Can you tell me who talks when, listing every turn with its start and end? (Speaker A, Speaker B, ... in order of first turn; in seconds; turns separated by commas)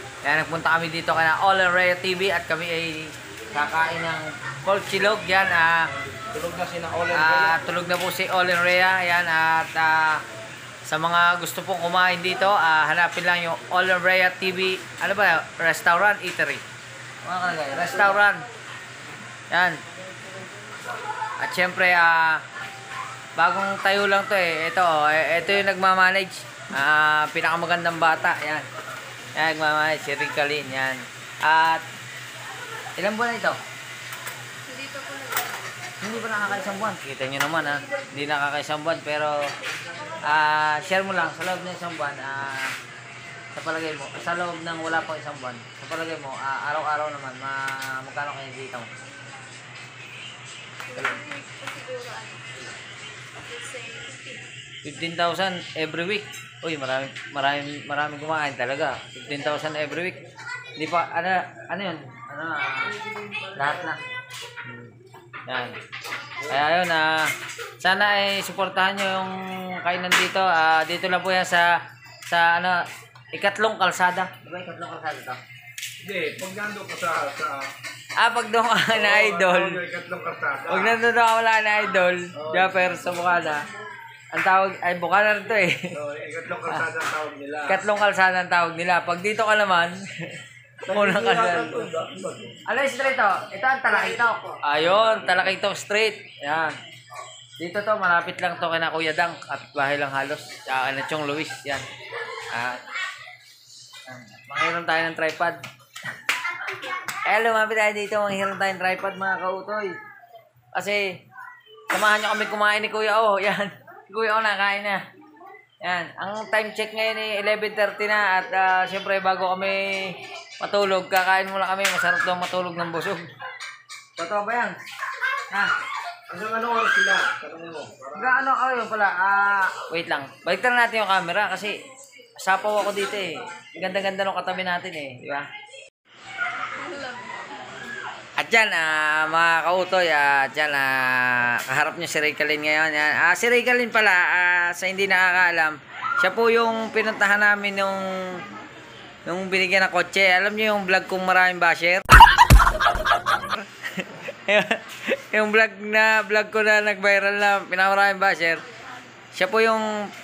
Speaker A: 0.2-5.8, Speaker B: 6.2-7.6, Speaker A: 7.1-10.2, Speaker A: 10.8-16.6, Speaker A: 17.2-18.5, Speaker A: 19.5-19.8, Speaker A: 21.4-22.4, Speaker A: 23.4-28.6, Speaker A: 29.3-31.8, Speaker A: 33.0-33.6, Speaker C: 34.6-35.7, Speaker A: 36.0-39.5, Speaker A: 40.2-42.7, Speaker A: 43.5-48.9, Speaker C: 50.9-52.7, Speaker C: 53.4-54.5, Speaker A: 54.8-60.2, Speaker A: 60.8-63.0, Speaker A: 63.5-64.0, Speaker A: 64.7-64.9, Speaker A: 65.5-65.8, Speaker A: 66.5-71.7, Speaker A: 72.3-75.4, Speaker B: 76.0-77.7, Speaker A: 78.2-79.8, Speaker B: 78.9-81.0, Speaker A: 80.7-83.6, Speaker B: 82.3-82.8, Speaker A: 84.3-85.9, Speaker B: 85.9-87.8, Speaker A: 87.7-90.3, Speaker B: 90.8-92.6, Speaker A: 90.9-91.9, Speaker A: 92.7-96.8, Speaker A: 97.6-101.8, Speaker A: 102.5-102.8, Speaker A: 104.0-105.6, Speaker A: 107.2-110.0, Speaker A: 110.7-111.2, Speaker A: 111.9-115.0, Speaker A: 115.8-123.3, Speaker A: 124.2-124.8, Speaker B: 126.3-128.4, Speaker A: 128.1-131.8, Speaker A: 132.4-135.5, Speaker C: 136.7-137.6, Speaker A: 138.4-148.4, Speaker A: 149.2-152.0, Speaker A: 153.3-158.6, Speaker A: 159.3-159.9